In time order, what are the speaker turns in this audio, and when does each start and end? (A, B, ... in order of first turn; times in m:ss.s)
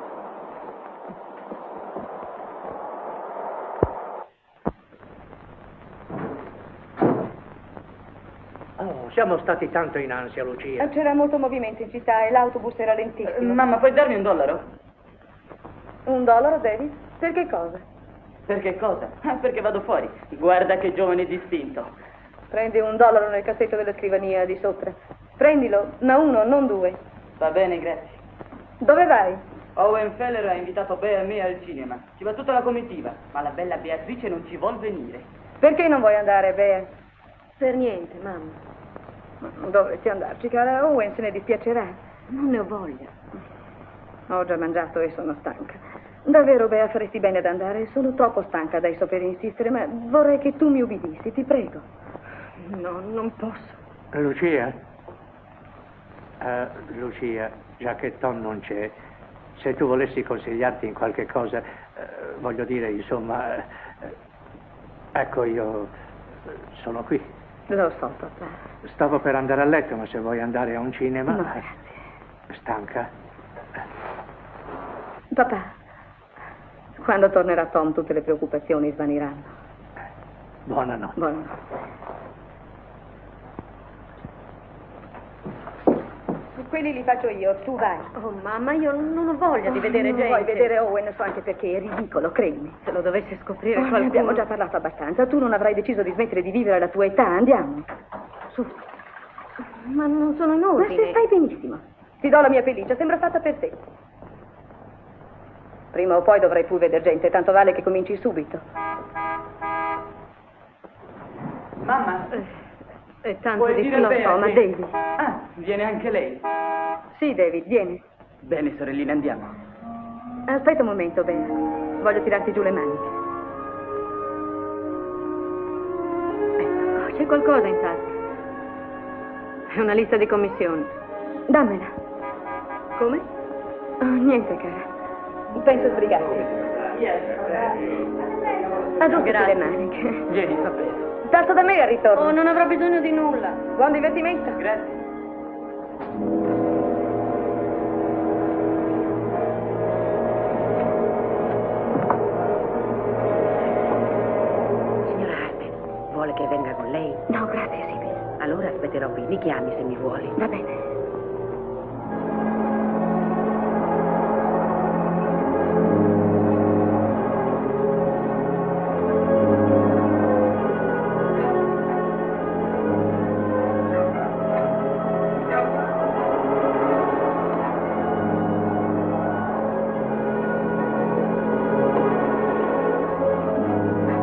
0:08.8-0:10.9 A
0:10.8-0:13.6 B
0:13.2-0:14.6 C
0:16.0-0:17.8 B
0:18.5-0:21.9 C
0:22.5-0:27.0 B
0:27.4-0:28.2 C
0:28.8-0:29.4 B
0:29.8-0:35.3 C
0:35.6-0:36.9 B
0:37.6-0:38.6 D
0:39.4-0:42.0 B
0:42.3-0:43.1 D
0:44.3-0:51.8 B
0:52.6-0:53.8 D
0:54.1-0:54.8 A
0:56.4-0:59.0 A
0:59.6-1:04.1 A
1:05.1-1:05.9 A
1:06.7-1:07.3 A
1:07.7-1:08.6 B
1:08.8-1:11.6 A
1:11.3-1:11.7 B
1:12.5-1:13.1 A
1:15.3-1:15.7 B
1:17.0-1:19.5 B
1:20.7-1:21.1 A
1:21.2-1:21.5 B
1:26.6-1:28.1 B
1:28.2-1:30.7 D
1:29.8-1:32.8 B
1:32.8-1:34.4 D
1:33.7-1:37.8 B
1:39.8-1:41.2 D
1:40.8-1:43.8 B
1:45.9-1:48.6 B
1:51.8-1:52.3 C
1:53.2-1:54.9 B
1:53.6-1:54.6 C
1:55.2-1:56.4 C
1:57.1-1:58.0 B
1:58.4-1:59.5 C
2:00.5-2:03.1 B
2:06.9-2:08.1 D
2:09.7-2:10.9 D
2:11.5-2:11.9 B
2:13.0-2:13.2 D
2:14.0-2:14.9 B
2:15.5-2:16.6 B
2:17.2-2:17.7 C
2:19.0-2:20.2 B
2:19.0-2:19.7 D
2:20.3-2:20.9 C
2:21.2-2:22.4 B
2:22.1-2:23.6 D
2:23.8-2:24.6 B
2:24.6-2:25.0 C
2:35.0-2:37.2 E
2:37.3-2:38.2 B
2:38.4-2:40.4 E
2:40.4-2:40.8 B